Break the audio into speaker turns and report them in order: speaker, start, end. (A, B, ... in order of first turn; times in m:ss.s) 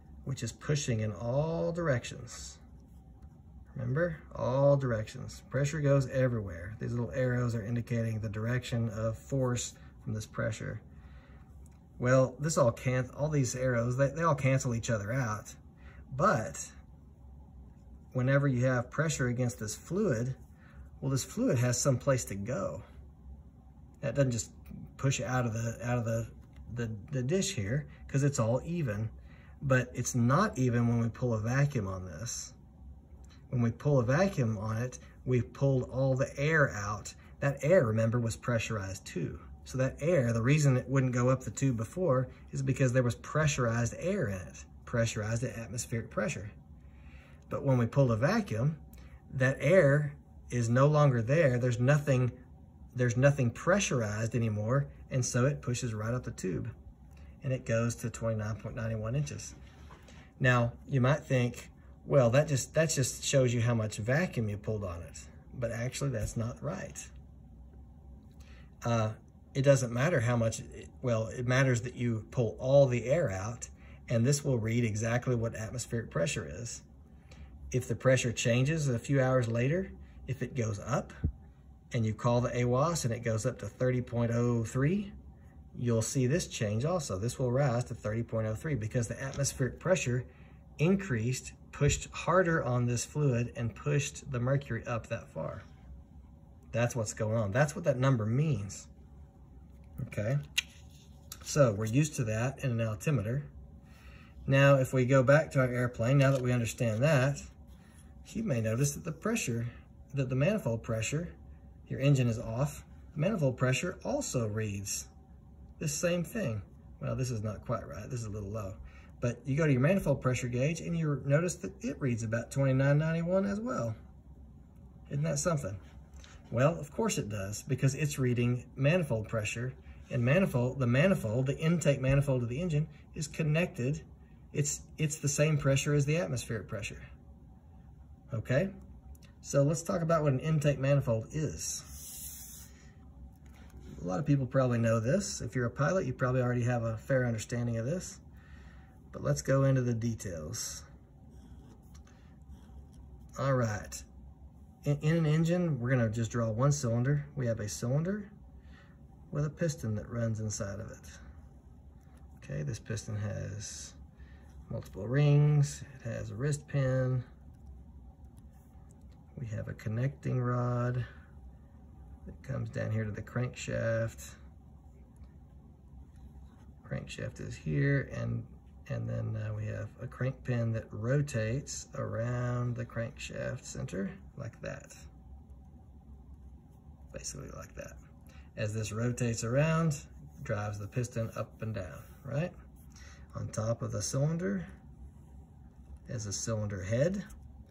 0:00.2-0:02.6 A
0:03.7-0:10.8 A
0:12.0-0:15.6 A
0:16.1-0:16.8 A
0:18.1-0:20.4 A
0:21.0-0:22.9 A
0:24.0-0:32.6 A
0:33.5-0:46.5 A
0:47.5-0:52.4 A
0:52.9-0:56.7 A
0:57.4-0:59.6 A
1:00.4-1:07.1 A
1:08.8-1:16.8 A
1:17.7-1:21.2 A
1:21.9-1:25.1 A
1:25.7-1:30.3 A
1:30.8-1:35.6 A
1:36.7-1:38.9 A
1:40.0-1:40.4 A
1:41.4-1:43.5 A
1:44.5-1:47.5 A
1:48.2-1:51.4 A
1:51.9-1:55.1 A
1:55.8-2:04.0 A
2:05.1-2:05.8 A
2:06.5-2:17.1 A
2:18.3-2:18.7 A
2:19.4-2:21.9 A
2:24.0-2:28.2 A
2:29.1-2:30.9 A
2:33.4-2:34.1 A
2:34.8-2:38.3 A
2:39.3-2:41.2 A
2:42.4-2:44.0 A
2:44.7-2:47.2 A
2:49.4-2:51.1 A
2:52.3-2:54.4 A
2:56.8-3:05.0 A
3:07.1-3:08.0 A
3:08.6-3:12.5 A
3:13.3-3:14.7 A
3:16.1-3:17.2 A